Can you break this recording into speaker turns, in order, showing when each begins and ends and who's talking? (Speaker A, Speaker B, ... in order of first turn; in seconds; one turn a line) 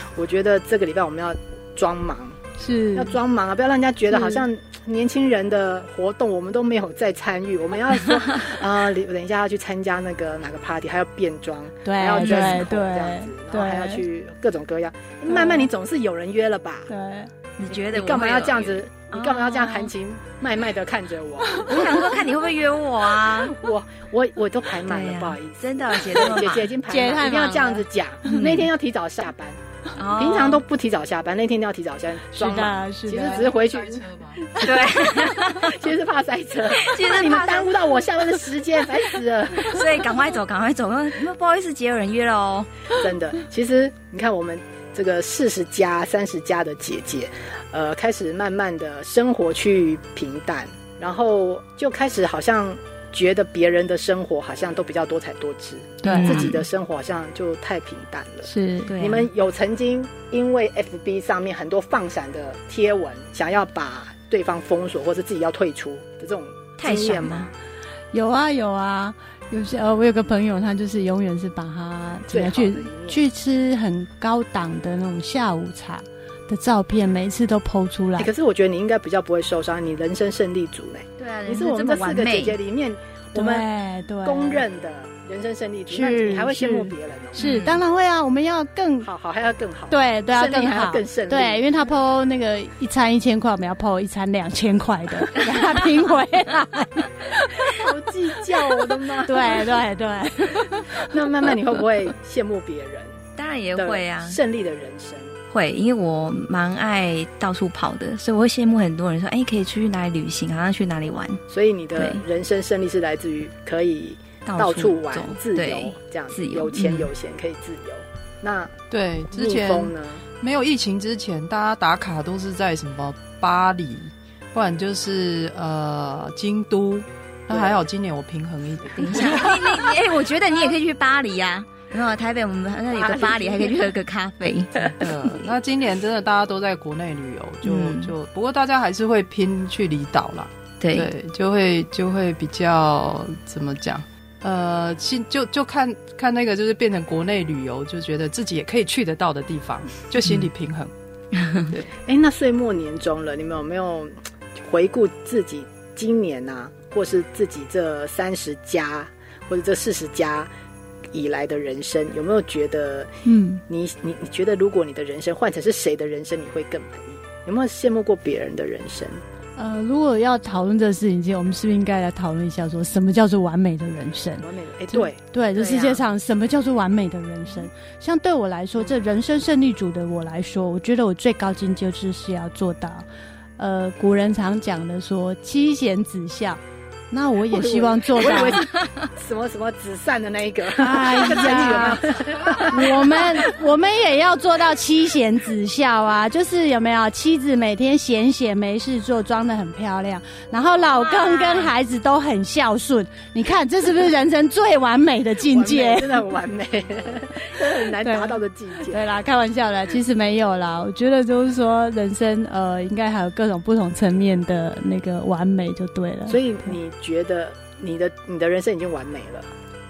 Speaker A: 0.2-2.4
Speaker B: 2.6-3.2
Speaker A: 3.0-16.9
Speaker B: 4.1-4.4
Speaker B: 11.8-14.0
Speaker C: 12.2-12.7
Speaker B: 15.3-15.7
Speaker B: 16.9-17.3
Speaker C: 17.6-19.9
Speaker A: 17.7-22.1
Speaker B: 21.5-21.8
Speaker C: 21.7-23.6
Speaker A: 23.3-29.6
Speaker C: 24.9-26.7
Speaker B: 26.9-28.5
Speaker C: 28.4-28.7
Speaker C: 30.0-30.6
Speaker A: 30.1-34.1
Speaker B: 32.3-33.5
Speaker D: 33.1-34.4
Speaker C: 34.6-35.8
Speaker A: 35.5-40.0
Speaker C: 36.7-38.0
Speaker C: 39.6-42.7
Speaker A: 43.0-67.5
Speaker B: 56.0-56.5
Speaker C: 56.0-56.6
Speaker B: 58.5-58.9
Speaker C: 58.9-59.3
Speaker C: 66.8-67.5
Speaker B: 68.1-78.3
Speaker A: 72.3-73.2
Speaker A: 78.2-83.7
Speaker C: 81.2-82.6
Speaker B: 83.3-84.6
Speaker A: 84.2-87.4
Speaker B: 85.9-89.1
Speaker C: 87.4-87.8
Speaker A: 89.0-91.8
Speaker B: 89.9-97.8
Speaker A: 97.8-99.8
Speaker B: 98.6-101.1
Speaker A: 100.9-103.2
Speaker C: 103.4-104.4
Speaker A: 103.8-105.4
Speaker C: 105.5-111.4
Speaker A: 111.5-118.8
Speaker C: 112.0-112.2
Speaker C: 114.5-117.1
Speaker D: 118.9-129.7
Speaker A: 119.3-120.2
Speaker A: 127.5-127.8
Speaker C: 129.0-135.5
Speaker A: 132.9-133.9
Speaker D: 135.0-150.9
Speaker C: 137.6-138.1
Speaker C: 140.8-141.1
Speaker A: 151.8-160.5
Speaker A: 161.1-163.1
Speaker B: 163.2-163.6
Speaker A: 163.7-169.2
Speaker B: 169.6-183.1
Speaker A: 174.4-175.2
Speaker C: 175.5-176.0
Speaker B: 183.6-188.6
Speaker A: 187.5-193.5
Speaker B: 190.7-206.2
Speaker C: 200.9-201.7
Speaker A: 205.4-209.0
Speaker B: 208.0-216.7
Speaker A: 216.3-219.5